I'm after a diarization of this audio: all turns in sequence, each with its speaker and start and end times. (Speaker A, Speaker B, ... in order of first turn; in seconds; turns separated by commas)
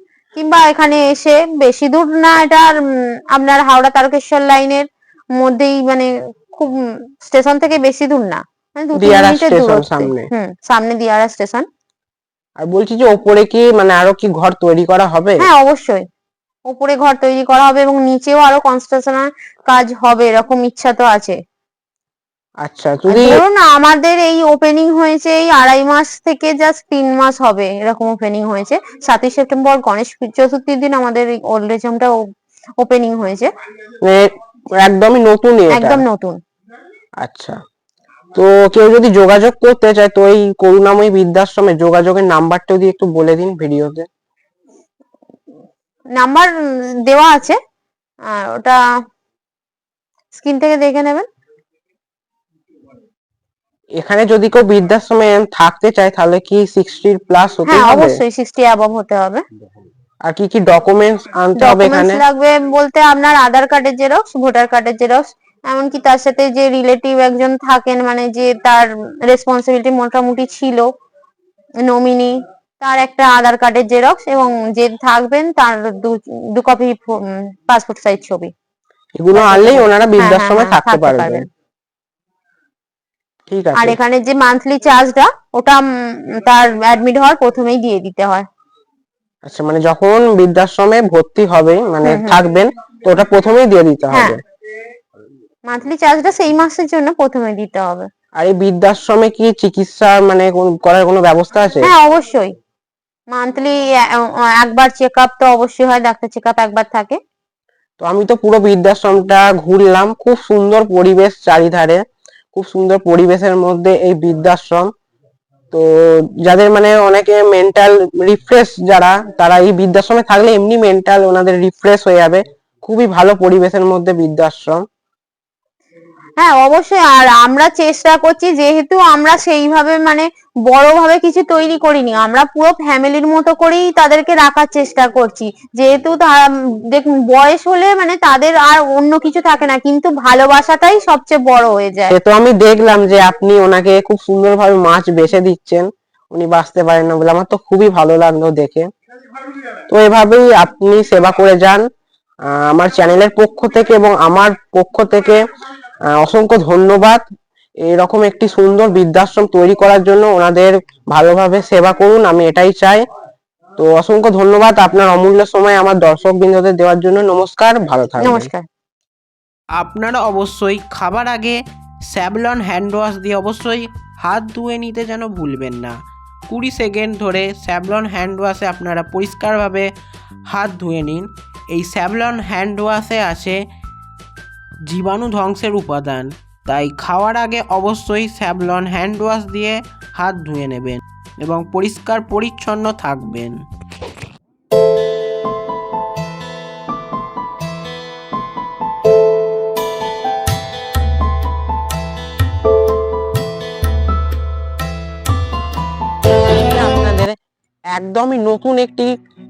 Speaker A: 0.3-11.7, Speaker B: 9.0-10.3, Speaker B: 12.6-15.5, Speaker A: 15.4-16.1, Speaker A: 16.7-21.4, Speaker B: 22.6-23.4, Speaker A: 23.1-32.3, Speaker A: 32.8-33.5, Speaker B: 34.0-36.0, Speaker A: 35.7-36.4, Speaker B: 37.2-37.6, Speaker B: 38.3-44.1, Speaker A: 46.1-46.5, Speaker A: 47.0-47.6, Speaker A: 48.3-48.8, Speaker A: 50.3-51.3, Speaker B: 54.0-58.2, Speaker A: 57.7-59.4, Speaker B: 60.2-62.2, Speaker A: 61.6-70.9, Speaker A: 71.8-78.5, Speaker B: 79.2-81.5, Speaker A: 79.3-81.5, Speaker B: 83.5-84.0, Speaker A: 83.8-88.5, Speaker B: 89.5-94.4, Speaker A: 92.0-92.4, Speaker A: 94.1-94.4, Speaker A: 95.7-98.1, Speaker B: 98.4-101.9, Speaker A: 101.8-102.5, Speaker A: 103.3-107.2, Speaker B: 108.0-114.9, Speaker B: 115.7-124.8, Speaker A: 126.4-142.1, Speaker B: 142.1-148.9, Speaker B: 149.9-151.9, Speaker B: 152.5-155.4, Speaker B: 156.1-157.2, Speaker B: 157.8-163.1, Speaker B: 163.8-168.5, Speaker A: 168.2-168.7, Speaker C: 169.8-171.6, Speaker C: 172.1-179.9, Speaker C: 180.5-183.6, Speaker C: 184.9-193.6, Speaker B: 206.5-207.4, Speaker B: 207.9-209.1